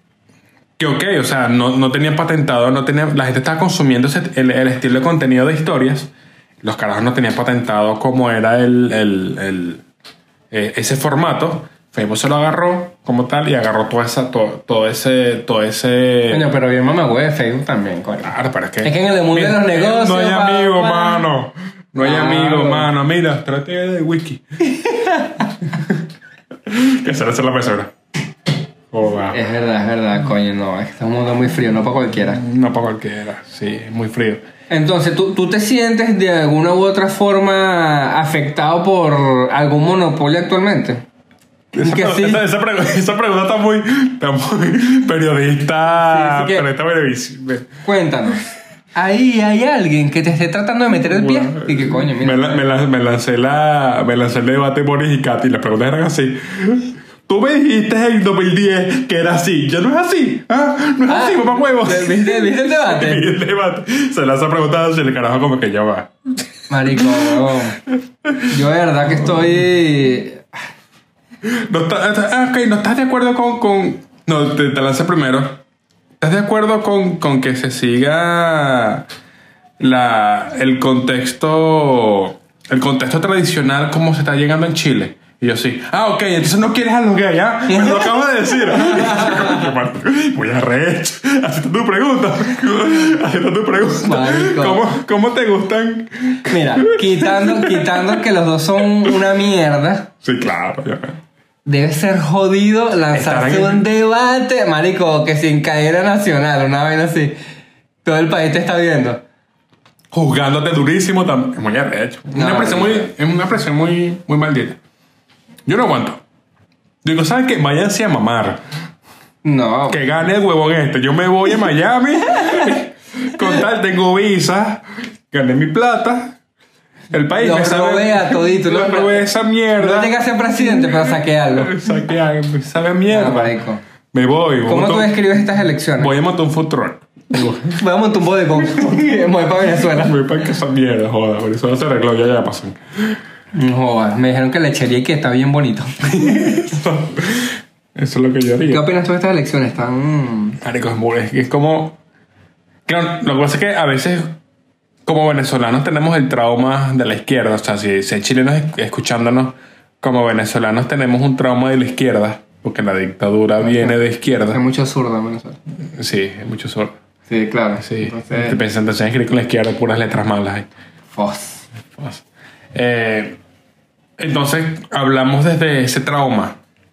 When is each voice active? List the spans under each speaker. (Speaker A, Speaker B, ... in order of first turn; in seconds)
Speaker A: 0.8-9.8, 10.5-16.5, 18.2-24.4, 26.6-27.9, 28.9-29.4, 32.3-34.4, 41.7-47.7, 51.1-66.1, 66.9-67.4, 68.2-68.5, 71.4-75.6, 76.2-79.1, 79.8-98.2, 100.2-101.2, 103.1-103.8, 110.1-114.8, 115.7-116.2, 117.0-118.6, 119.9-126.4, 127.1-133.6, 134.1-135.1, 136.0-137.8, 138.7-139.0, 139.9-143.2, 146.0-148.8, 150.6-152.0, 152.8-154.4, 155.0-164.6, 165.9-167.0, 167.8-170.7, 171.9-173.4, 174.2-176.6
Speaker B: 16.3-21.2, 22.0-22.9, 24.7-25.5, 29.3-32.4, 34.7-41.0, 41.8-42.4, 46.0-46.7, 47.8-48.4, 48.9-52.6, 61.1-63.3, 66.7-67.8, 68.5-70.4, 87.7-89.7, 94.0-94.8, 96.5-100.1, 101.6-107.4, 108.0-109.2, 112.3-113.1, 119.4-120.0, 122.5-122.8, 127.4-129.3, 129.8-131.8, 133.1-133.8, 134.7-136.1, 137.7-140.2, 143.5-146.6, 148.7-150.6, 163.6-164.0, 164.5-165.6, 167.3-168.6, 171.1-171.7